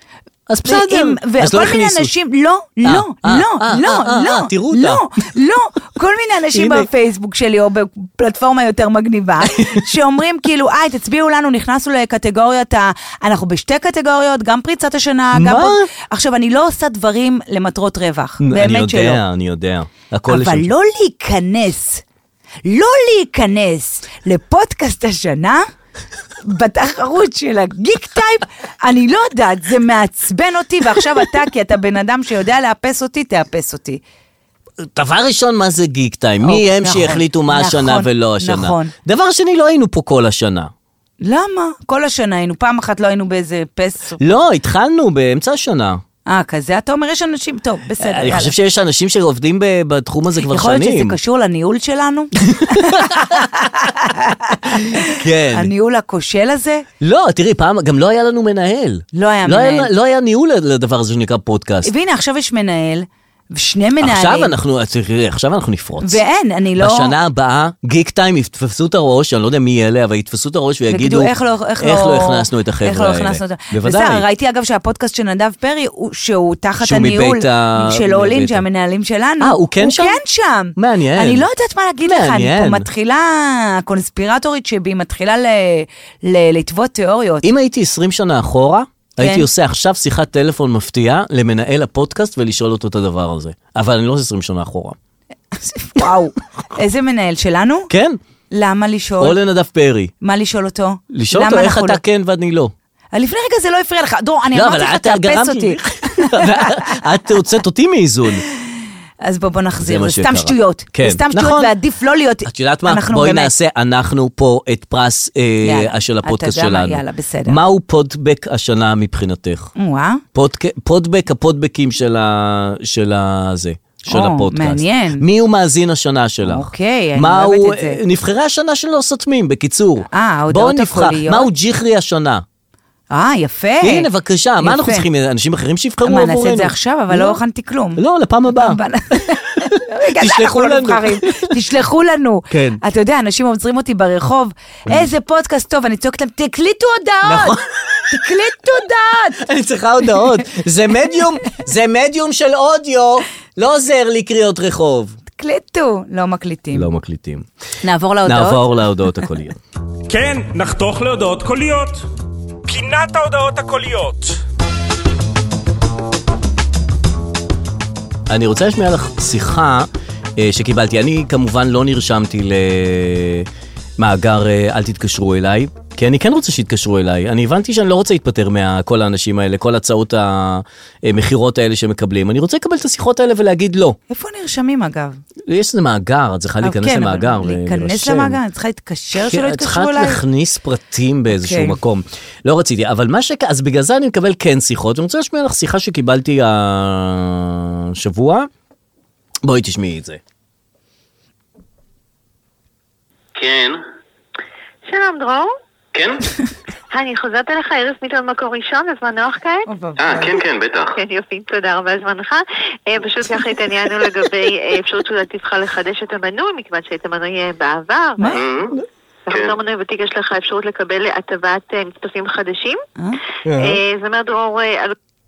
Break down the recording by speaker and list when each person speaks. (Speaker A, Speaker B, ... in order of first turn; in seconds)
Speaker A: 0.5-2.1, 2.8-5.1, 6.5-6.9, 9.5-9.8, 15.3-15.9, 18.4-20.7, 34.8-40.7, 44.2-46.0, 48.0-51.2, 52.5-53.3, 55.1-55.7, 57.0-61.9, 64.0-66.2, 66.8-74.2, 76.8-78.6, 79.4-80.2, 80.8-81.5, 82.0-82.9, 87.4-95.0, 97.9-98.2, 99.2-100.1, 101.1-102.7, 104.5-108.4, 109.8-111.7, 112.5-119.7, 120.3-132.4, 133.8-137.4, 138.0-138.8, 139.8-141.6, 142.5-142.8, 147.2-148.3, 149.4-155.2, 156.7-157.5, 158.2-159.6, 168.3-184.0, 185.5-188.4, 189.2-198.5, 199.4-200.2, 223.4-223.8
Speaker B: 0.7-19.2, 20.3-22.0, 22.6-25.6, 26.4-34.0, 36.4-38.9, 41.2-44.2, 46.3-48.5, 50.5-56.9, 59.1-59.9, 61.8-64.5, 66.0-67.1, 70.9-87.5, 89.2-89.5, 95.6-97.9, 98.5-99.4, 100.2-102.0, 103.1-107.0, 109.2-113.5, 115.6-117.6, 119.8-120.2, 124.1-125.2, 126.4-128.0, 130.1-131.5, 133.1-134.1, 134.6-135.1, 136.1-138.0, 138.5-147.6, 148.1-149.4, 155.4-156.9, 157.8-158.6, 184.1-185.2, 186.6-190.2, 191.3-191.8, 209.7-210.4
Speaker C: 160.1-162.1, 162.7-164.4
Speaker D: 203.3-203.8, 205.9-206.2, 210.0-210.9, 218.3-218.8
Speaker E: 204.9-205.5, 206.9-209.7, 210.9-218.4, 219.3-222.8, 223.5-225.0